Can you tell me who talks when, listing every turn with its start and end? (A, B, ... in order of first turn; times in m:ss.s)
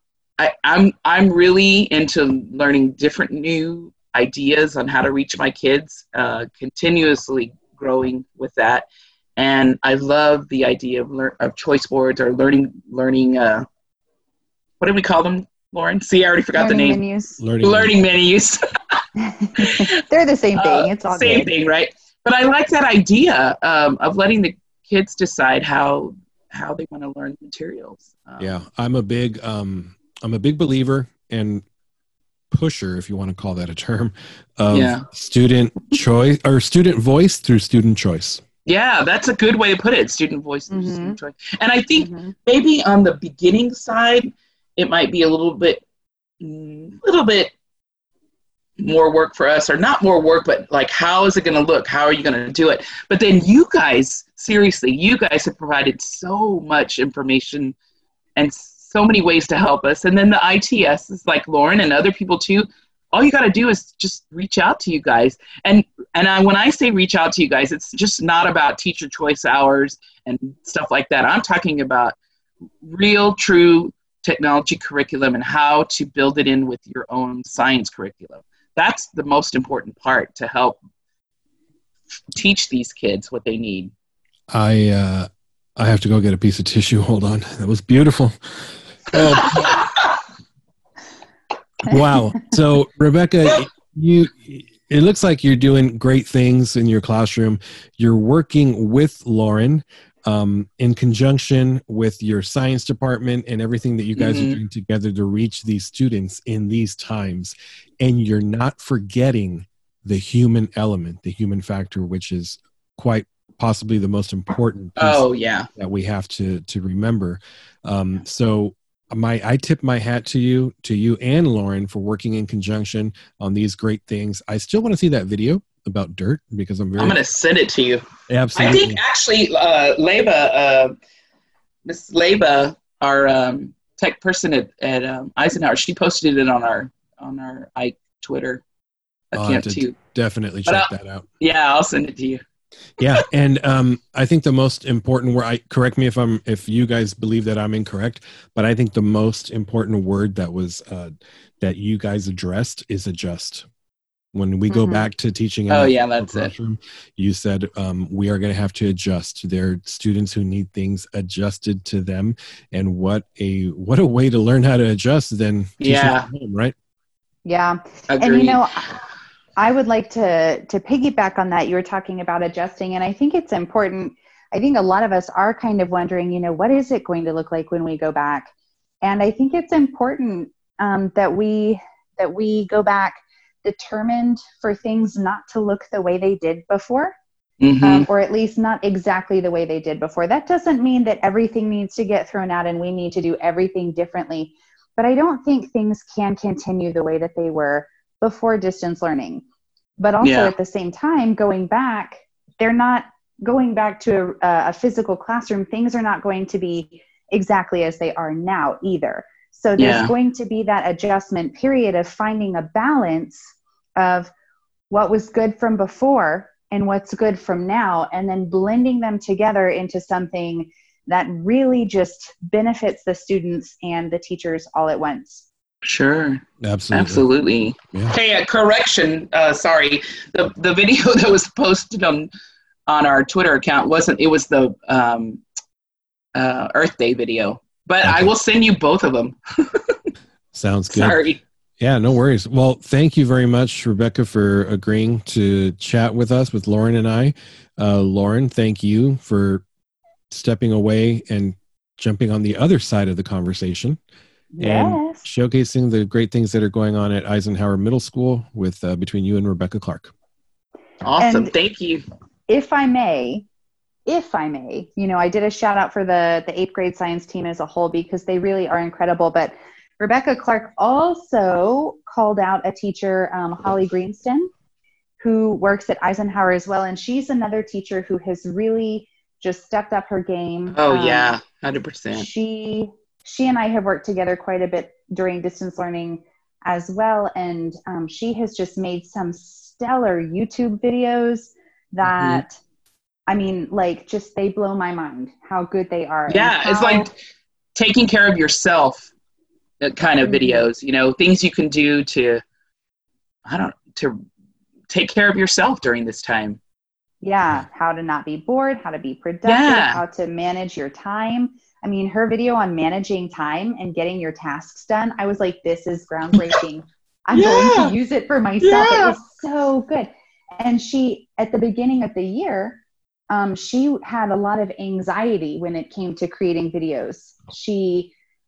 0:00.4-0:08.9 A
0:09.4-0:13.6 A
0:14.8-0:17.0 A
0:16.6-0:17.4 B
0:17.4-0:17.9 C
0:17.6-0:19.0 A
0:19.2-0:21.5 B
0:19.6-0:19.9 A
0:20.6-0:28.6 A
0:28.4-0:31.6 C
0:32.5-0:38.4 C
0:34.7-0:35.0 A
0:38.7-0:45.8 A
0:40.7-0:41.2 B
0:42.0-0:42.3 B
0:46.4-0:47.5 A
0:48.8-0:57.8 A
0:58.4-1:12.2 A
1:12.8-1:20.8 A
1:22.3-1:23.9 A
1:24.5-1:29.8 C
1:29.1-1:30.0 A
1:31.8-1:55.2 C
1:44.2-1:44.6 A
1:55.0-1:55.7 A
1:55.8-2:07.2 C
2:07.0-2:08.0 A
2:08.3-2:09.0 C
2:08.6-2:11.0 A
2:11.9-2:18.6 A
2:19.3-2:20.0 A
2:19.3-2:21.3 C
2:20.7-2:22.4 A
2:23.0-2:33.7 C
2:34.3-2:46.7 C
2:34.7-2:35.1 B
2:35.7-2:36.5 A
2:45.8-2:46.3 A
2:47.4-2:48.9 B
2:48.1-2:48.6 A
2:49.6-2:58.5 B
2:59.0-3:07.2 B
3:07.6-3:08.1 A
3:07.8-3:19.4 B
3:20.0-3:34.3 B
3:20.2-3:20.5 A
3:29.8-3:30.1 A
3:34.9-3:45.5 B
3:45.8-3:52.3 A
3:46.6-3:47.2 C
3:52.9-3:55.4 A
3:56.4-4:00.0 A
3:58.0-3:58.3 C
4:00.5-4:01.2 C
4:00.9-4:01.4 A
4:01.8-4:09.6 C
4:10.3-4:14.0 C
4:14.6-4:15.2 B
4:14.6-4:20.1 C
4:21.0-4:22.0 A
4:21.2-4:21.5 B
4:22.5-4:23.5 B
4:24.1-4:34.5 B
4:35.2-4:41.4 B
4:40.8-4:42.3 A
4:42.1-4:52.6 B
4:52.0-4:52.4 A
4:53.3-4:57.1 B
4:56.3-4:57.1 A
4:57.8-4:59.1 A
4:59.8-5:02.4 A
5:00.2-5:00.7 B
5:03.5-5:04.2 A
5:04.9-5:06.6 A
5:07.2-5:28.1 B
5:09.4-5:10.0 A
5:17.3-5:17.9 A
5:18.6-5:19.2 A